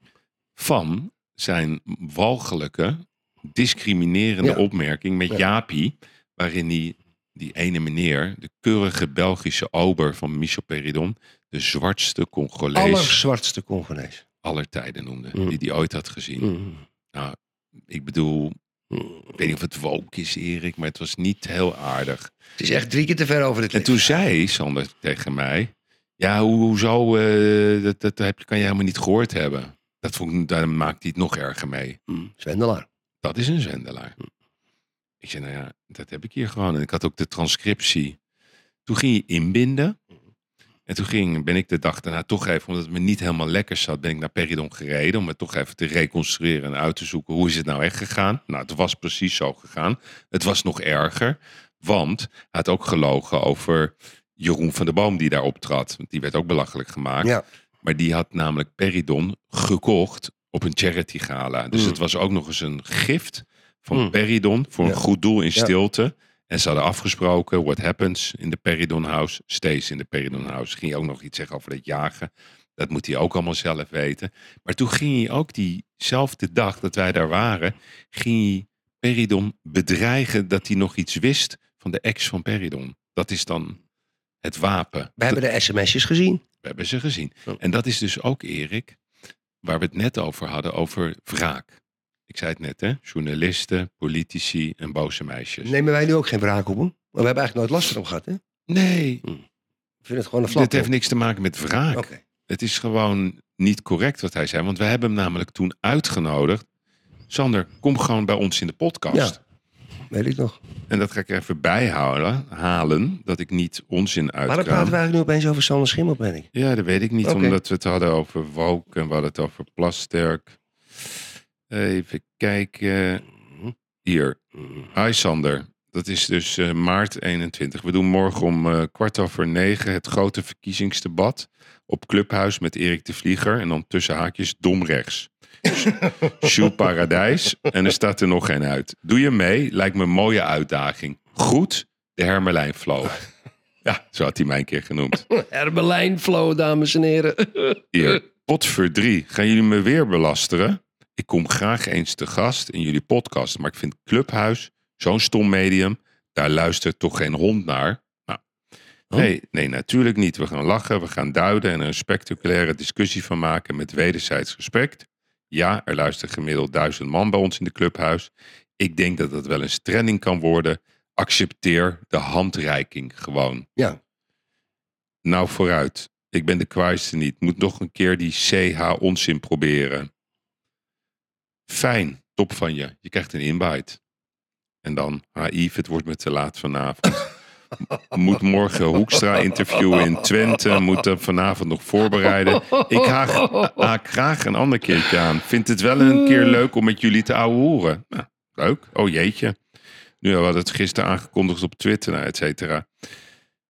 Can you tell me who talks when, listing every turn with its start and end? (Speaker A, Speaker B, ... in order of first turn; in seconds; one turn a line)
Speaker A: 0.6-13.2
Speaker B: 12.8-14.2
Speaker A: 14.4-16.5
Speaker B: 16.4-16.8
Speaker A: 17.9-18.6
Speaker A: 19.4-22.3
Speaker B: 22.6-24.1
Speaker A: 23.7-32.0
Speaker B: 32.1-32.9
Speaker A: 33.2-34.2
Speaker A: 35.2-38.2
Speaker A: 38.9-40.0
Speaker A: 40.9-83.8
Speaker A: 84.4-85.4
Speaker B: 85.2-86.4
Speaker A: 86.6-89.0
Speaker A: 89.6-91.8
Speaker A: 92.3-95.7
Speaker B: 95.7-98.4
Speaker A: 98.7-99.2
Speaker B: 100.0-100.9
Speaker A: 100.5-106.6
Speaker B: 101.9-102.2
Speaker A: 107.3-109.4
Speaker B: 109.1-109.4
Speaker B: 110.1-110.6
Speaker A: 110.9-115.0
Speaker B: 114.5-116.5
Speaker A: 116.5-121.1
Speaker B: 117.2-117.6
Speaker A: 121.7-123.2
Speaker A: 124.0-124.4
Speaker A: 124.9-143.2
Speaker A: 143.8-145.3
Speaker B: 145.3-147.8
Speaker A: 147.9-158.4
Speaker A: 159.1-173.7
Speaker A: 175.2-180.1
Speaker A: 181.7-184.0
Speaker A: 184.8-187.3
Speaker A: 188.1-199.6
Speaker A: 200.2-202.9